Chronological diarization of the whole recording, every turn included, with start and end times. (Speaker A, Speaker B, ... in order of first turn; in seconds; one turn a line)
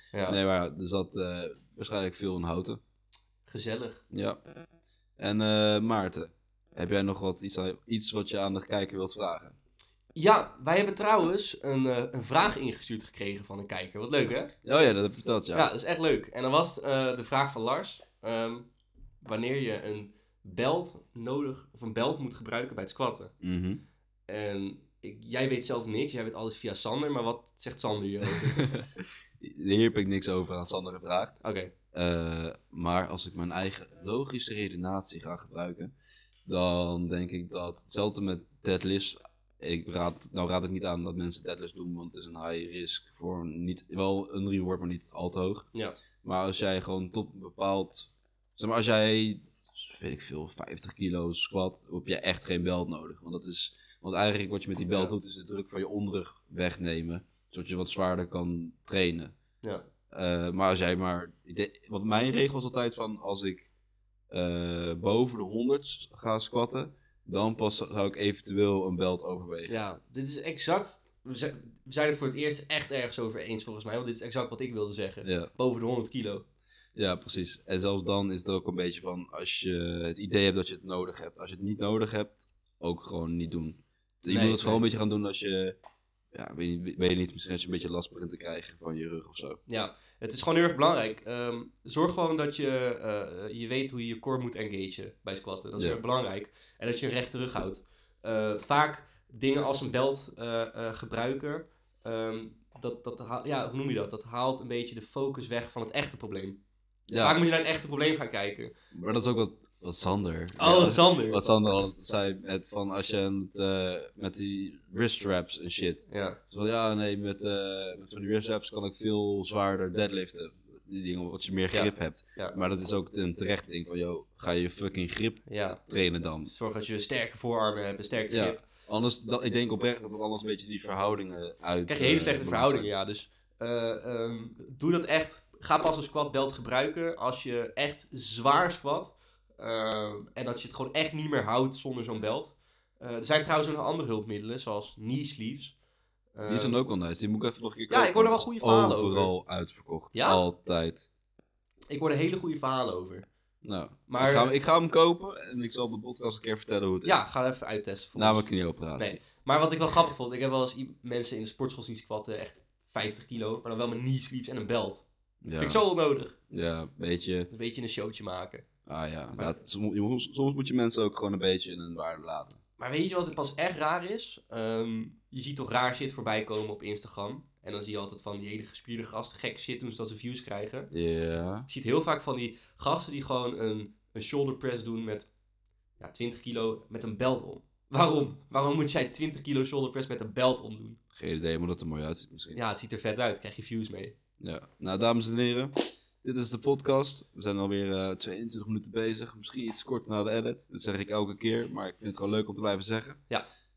Speaker A: 0.1-0.4
Speaker B: 0.3-2.8
Speaker A: 3.5-4.0
Speaker B: 4.1-4.4
Speaker B: 5.2-9.6
Speaker A: 10.2-14.5
Speaker B: 14.6-15.7
Speaker A: 15.5-18.7
Speaker A: 19.2-23.3
Speaker B: 23.4-23.8
Speaker A: 24.3-28.7
Speaker B: 28.5-31.4
Speaker A: 31.4-31.7
Speaker B: 31.9-35.9
Speaker B: 36.5-45.7
Speaker B: 46.2-59.4
Speaker A: 54.9-55.2
Speaker B: 60.1-63.7
Speaker B: 64.3-69.8
Speaker A: 69.7-76.5
Speaker B: 75.2-75.5
Speaker B: 77.0-85.8
Speaker A: 84.3-84.9
Speaker B: 86.3-89.6
Speaker A: 89.7-106.6
Speaker B: 107.1-107.4
Speaker A: 107.2-108.7
Speaker B: 108.9-126.5
Speaker A: 110.6-111.4
Speaker A: 116.1-116.4
Speaker A: 121.7-122.6
Speaker A: 125.5-125.8
Speaker A: 126.5-128.6
Speaker B: 128.3-132.9
Speaker A: 131.9-145.8
Speaker A: 146.3-146.8
Speaker B: 146.4-151.1
Speaker A: 147.9-149.3
Speaker A: 150.1-150.4
Speaker A: 151.9-153.3
Speaker B: 153.6-157.2
Speaker A: 154.1-154.5
Speaker A: 157.0-165.1
Speaker B: 158.2-159.2
Speaker B: 165.4-165.8
Speaker A: 165.6-166.3
Speaker B: 166.5-167.5
Speaker A: 167.5-168.7
Speaker B: 168.9-172.6
Speaker A: 169.4-169.6
Speaker A: 172.8-180.9
Speaker B: 180.9-181.7
Speaker A: 181.7-185.3
Speaker A: 186.0-191.0
Speaker B: 191.2-192.6
Speaker A: 192.5-194.2
Speaker B: 194.4-203.2